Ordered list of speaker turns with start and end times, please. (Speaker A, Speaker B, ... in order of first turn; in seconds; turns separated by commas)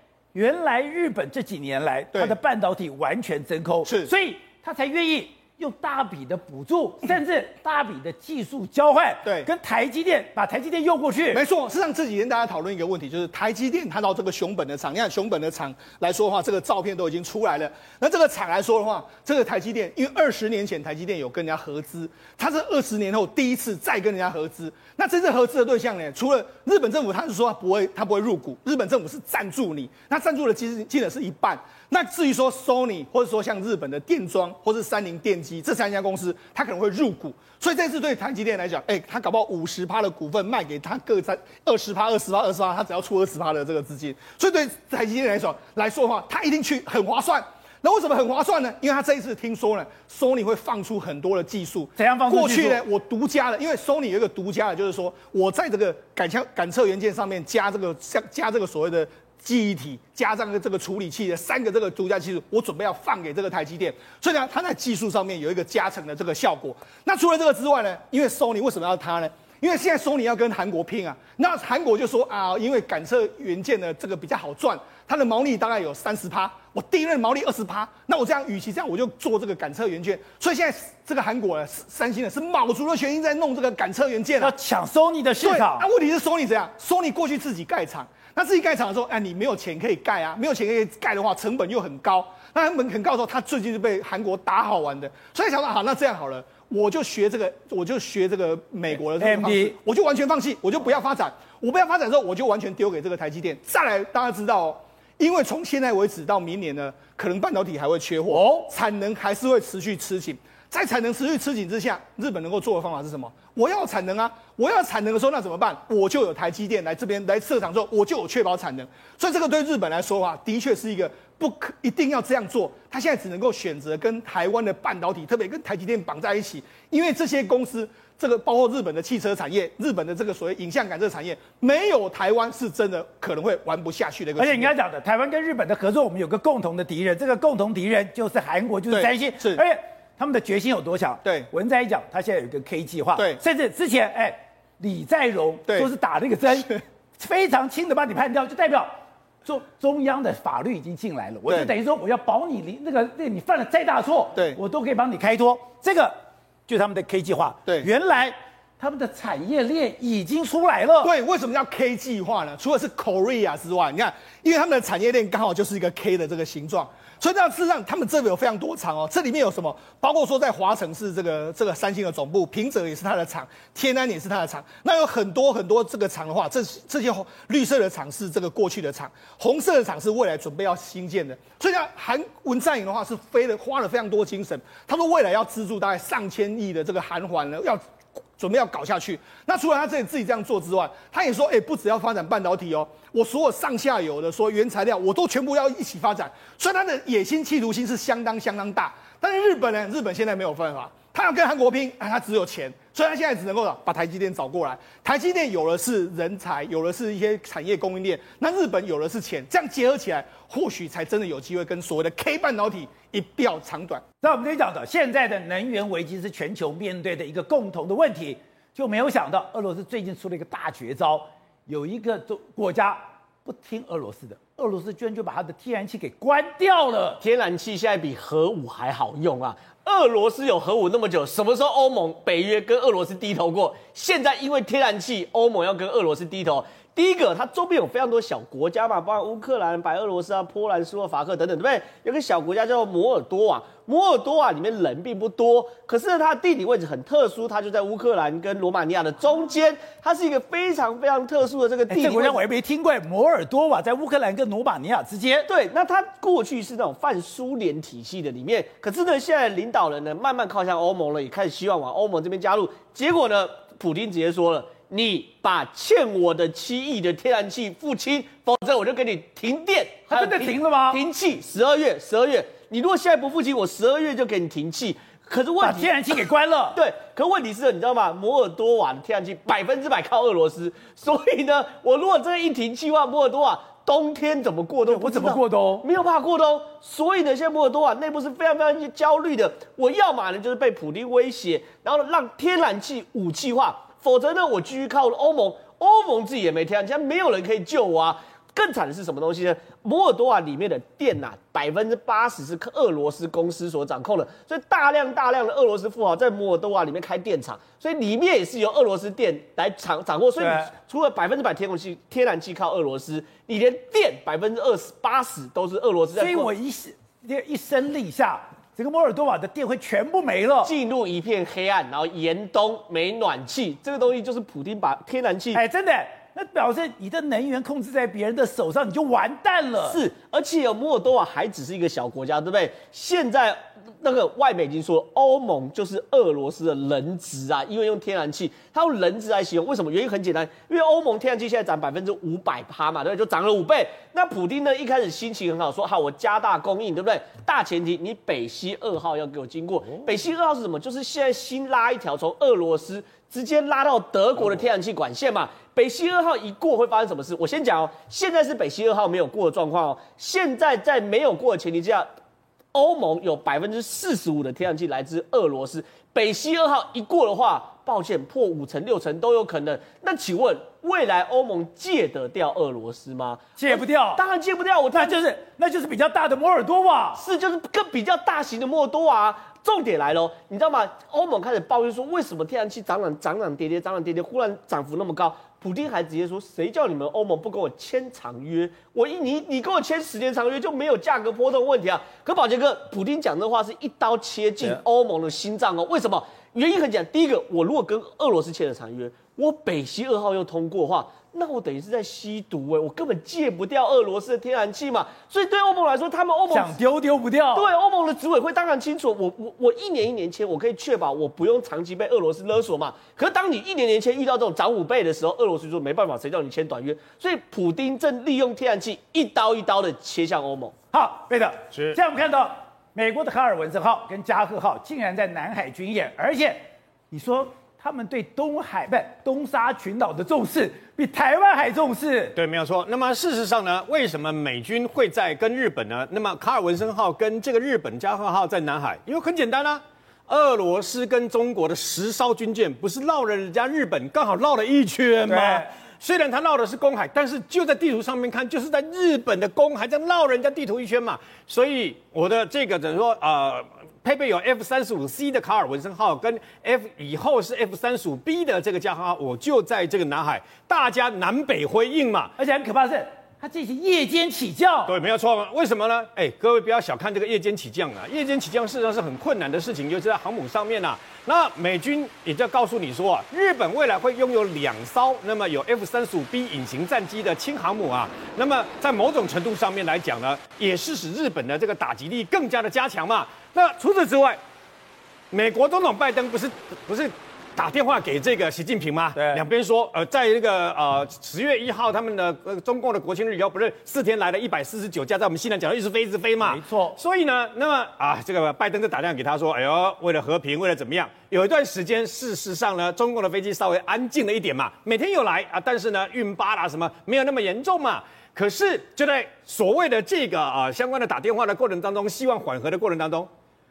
Speaker A: 0.3-11.4, Speaker B: 3.9-4.1, Speaker B: 9.2-9.5, Speaker B: 11.3-84.5, Speaker A: 52.0-52.8, Speaker A: 84.4-85.8, Speaker B: 85.4-134.7, Speaker A: 99.2-99.7, Speaker A: 108.3-108.7, Speaker A: 134.4-148.9, Speaker B: 138.9-139.6, Speaker B: 141.2-141.5, Speaker A: 149.4-156.2, Speaker B: 151.5-151.7, Speaker A: 156.7-161.1, Speaker B: 161.0-187.8, Speaker B: 188.4-214.0, Speaker A: 214.2-227.2, Speaker C: 227.2-252.4, Speaker A: 251.9-255.5, Speaker C: 255.5-316.5, Speaker A: 270.1-271.0, Speaker A: 275.6-276.8, Speaker A: 284.9-285.9, Speaker A: 310.4-310.7, Speaker A: 316.1-320.7, Speaker C: 320.6-325.6, Speaker A: 325.5-330.0, Speaker C: 329.8-362.1, Speaker C: 362.7-375.2, Speaker A: 373.6-374.2, Speaker A: 374.9-377.2, Speaker C: 377.1-406.8, Speaker A: 406.5-407.7, Speaker C: 407.5-420.7, Speaker A: 420.9-432.4, Speaker D: 421.7-422.0, Speaker D: 432.4-462.3, Speaker A: 445.3-445.7, Speaker A: 462.4-464.9, Speaker D: 464.9-484.4, Speaker D: 485.3-513.3, Speaker A: 489.1-489.4, Speaker A: 496.4-497.0